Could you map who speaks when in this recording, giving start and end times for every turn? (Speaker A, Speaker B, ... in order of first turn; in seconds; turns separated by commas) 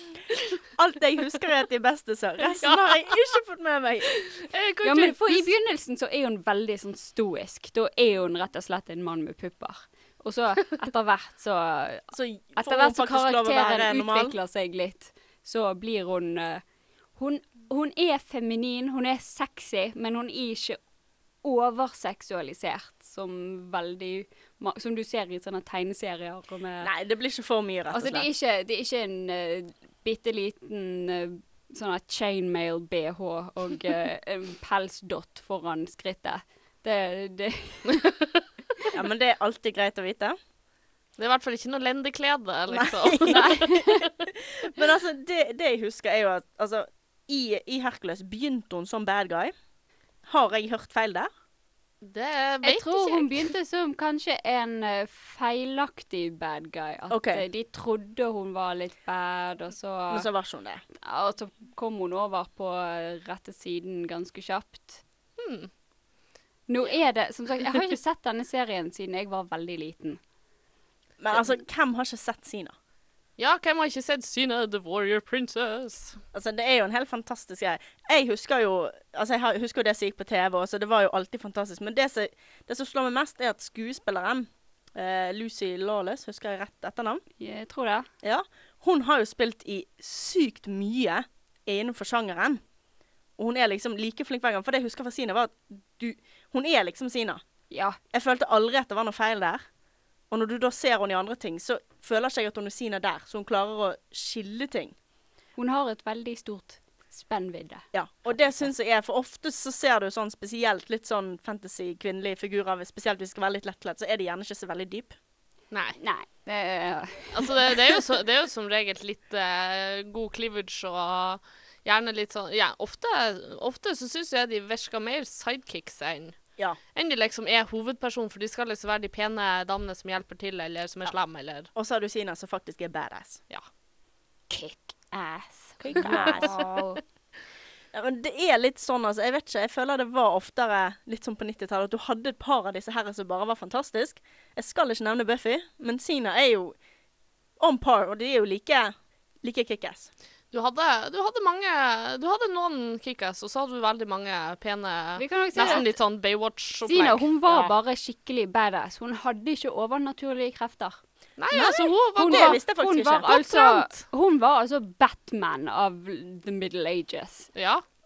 Speaker A: 0.8-4.1, Speaker B: 2.6-3.4, Speaker B: 4.1-5.5, Speaker C: 4.8-16.6, Speaker A: 12.1-14.3, Speaker C: 17.2-20.8, Speaker C: 21.4-26.9, Speaker A: 26.8-28.3, Speaker C: 27.9-38.0, Speaker A: 38.9-40.4, Speaker B: 41.2-43.8, Speaker A: 42.7-43.6, Speaker C: 43.3-44.0, Speaker A: 44.4-49.5, Speaker A: 50.3-51.3, Speaker B: 52.0-53.5, Speaker C: 52.6-60.3, Speaker A: 57.1-57.4, Speaker A: 60.1-60.8, Speaker C: 61.0-65.0, Speaker B: 65.4-65.7, Speaker C: 66.7-70.2, Speaker A: 71.2-72.7, Speaker B: 73.4-76.2, Speaker A: 76.3-87.2, Speaker C: 87.4-88.1, Speaker A: 88.2-92.6, Speaker A: 93.4-97.4, Speaker C: 97.7-98.0, Speaker A: 98.1-99.6, Speaker A: 100.3-105.0, Speaker C: 105.6-107.8, Speaker A: 107.9-115.1, Speaker B: 115.7-116.0, Speaker C: 116.0-117.6, Speaker B: 117.3-126.4, Speaker B: 127.0-131.7, Speaker A: 131.7-133.4, Speaker C: 134.5-137.0, Speaker A: 135.8-136.5, Speaker B: 136.1-136.3, Speaker A: 137.9-146.8, Speaker A: 147.6-150.1, Speaker B: 150.5-157.7, Speaker C: 155.2-155.9, Speaker C: 156.9-161.0, Speaker B: 161.4-162.6, Speaker A: 161.5-163.4, Speaker C: 162.2-167.5, Speaker B: 163.3-163.9, Speaker B: 167.6-167.8